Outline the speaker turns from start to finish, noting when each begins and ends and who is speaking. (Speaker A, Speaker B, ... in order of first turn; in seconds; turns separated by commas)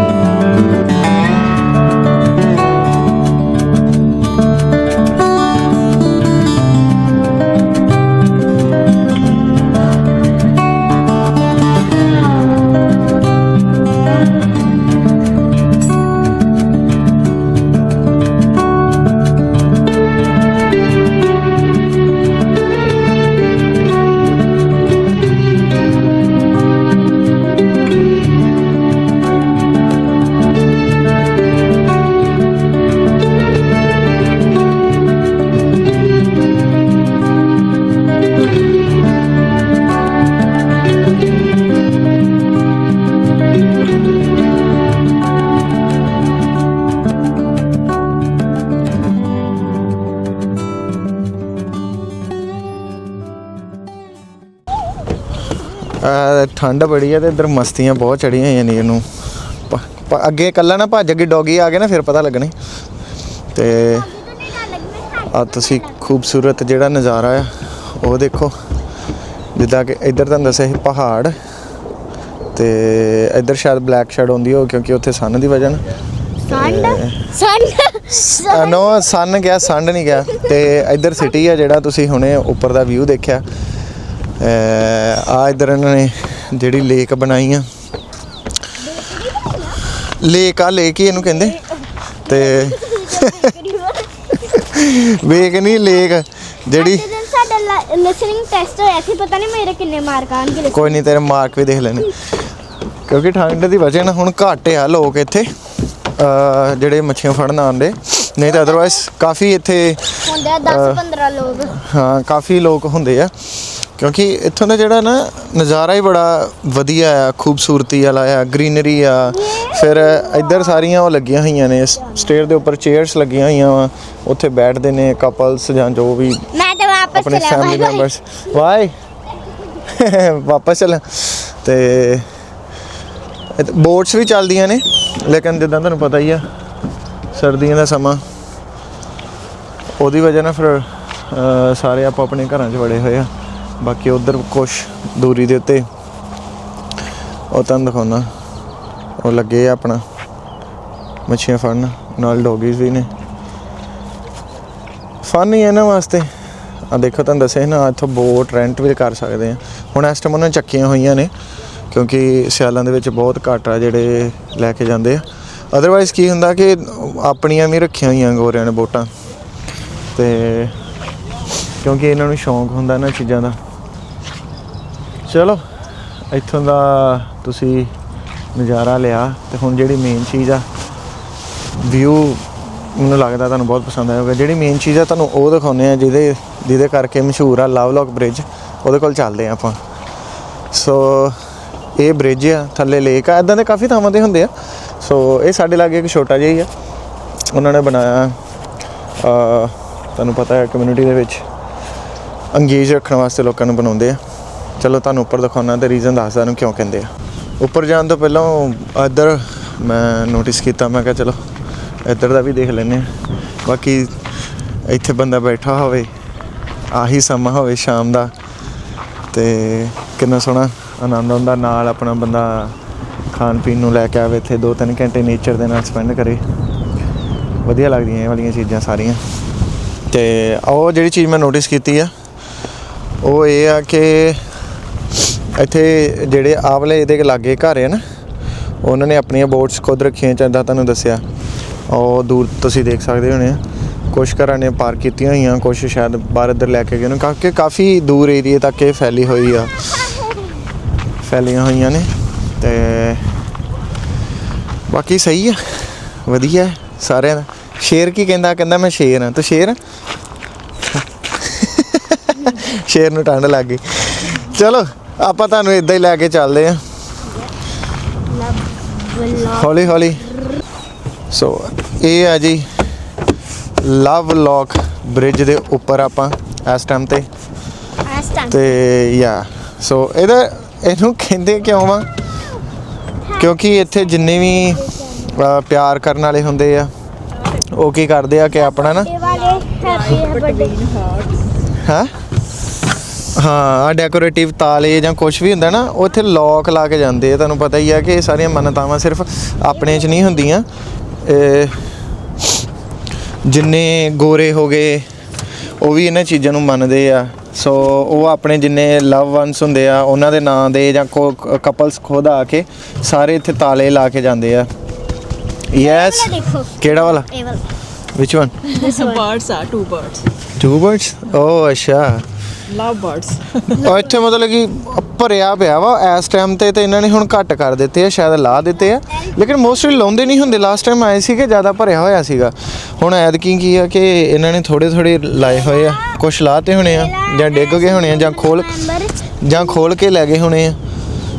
Speaker A: 55.9-59.1, Speaker A: 59.7-62.5, Speaker A: 63.5-64.1, Speaker B: 63.8-66.1, Speaker A: 65.3-68.5, Speaker A: 69.5-71.4, Speaker A: 72.5-75.8, Speaker B: 76.5-79.1, Speaker A: 76.5-77.3, Speaker A: 78.1-83.4, Speaker A: 84.4-87.7, Speaker B: 88.8-89.8, Speaker A: 90.0-91.6, Speaker B: 91.2-94.6, Speaker A: 92.2-93.5, Speaker A: 94.4-97.1, Speaker B: 95.3-96.1, Speaker B: 96.7-101.1, Speaker A: 100.7-102.3, Speaker A: 103.1-105.5, Speaker A: 106.1-111.0, Speaker B: 108.4-109.0, Speaker B: 110.2-111.8, Speaker A: 111.7-126.5, Speaker B: 119.3-120.9, Speaker B: 126.5-128.1, Speaker A: 127.1-128.9, Speaker A: 129.7-132.3, Speaker A: 133.5-136.5, Speaker A: 137.3-138.2, Speaker A: 140.0-145.9, Speaker A: 147.5-148.3, Speaker A: 149.2-150.0, Speaker A: 151.3-153.1, Speaker A: 155.2-156.3, Speaker A: 156.9-161.3, Speaker A: 161.9-169.1, Speaker A: 170.2-170.8, Speaker A: 171.8-173.6, Speaker A: 175.3-175.6, Speaker A: 176.3-177.9, Speaker A: 178.5-180.7, Speaker A: 181.8-189.8, Speaker A: 190.7-191.4, Speaker A: 192.0-196.7, Speaker A: 197.5-198.4, Speaker A: 199.2-201.4, Speaker A: 202.5-204.2, Speaker A: 204.8-211.4, Speaker A: 212.1-213.1, Speaker A: 213.6-214.2, Speaker A: 214.9-216.1, Speaker A: 216.9-218.3, Speaker A: 219.3-222.8, Speaker A: 223.3-226.4, Speaker A: 227.6-229.2, Speaker A: 230.1-232.1, Speaker A: 233.2-234.4, Speaker A: 235.6-238.0, Speaker A: 238.8-241.2, Speaker A: 241.9-250.1, Speaker A: 251.2-253.3, Speaker A: 254.9-259.8, Speaker A: 260.9-266.8, Speaker B: 267.2-267.5, Speaker B: 268.3-270.2, Speaker A: 269.5-270.3, Speaker A: 271.3-272.7, Speaker A: 273.8-277.3, Speaker B: 278.1-278.8, Speaker A: 278.5-282.1, Speaker B: 283.2-285.4, Speaker A: 283.4-286.9, Speaker A: 287.6-289.1, Speaker B: 288.6-290.8, Speaker C: 289.2-291.4, Speaker A: 291.8-292.1, Speaker A: 293.3-300.7, Speaker B: 299.9-300.3, Speaker A: 301.2-301.8, Speaker A: 303.4-305.1, Speaker A: 305.8-314.7, Speaker A: 315.7-317.3, Speaker B: 315.8-317.6, Speaker A: 318.1-318.6, Speaker C: 318.7-320.2, Speaker B: 318.8-319.3, Speaker A: 320.6-322.2, Speaker C: 322.7-323.8, Speaker A: 323.7-338.9, Speaker B: 328.9-330.8, Speaker B: 335.4-336.2, Speaker B: 336.8-339.8, Speaker A: 339.4-340.8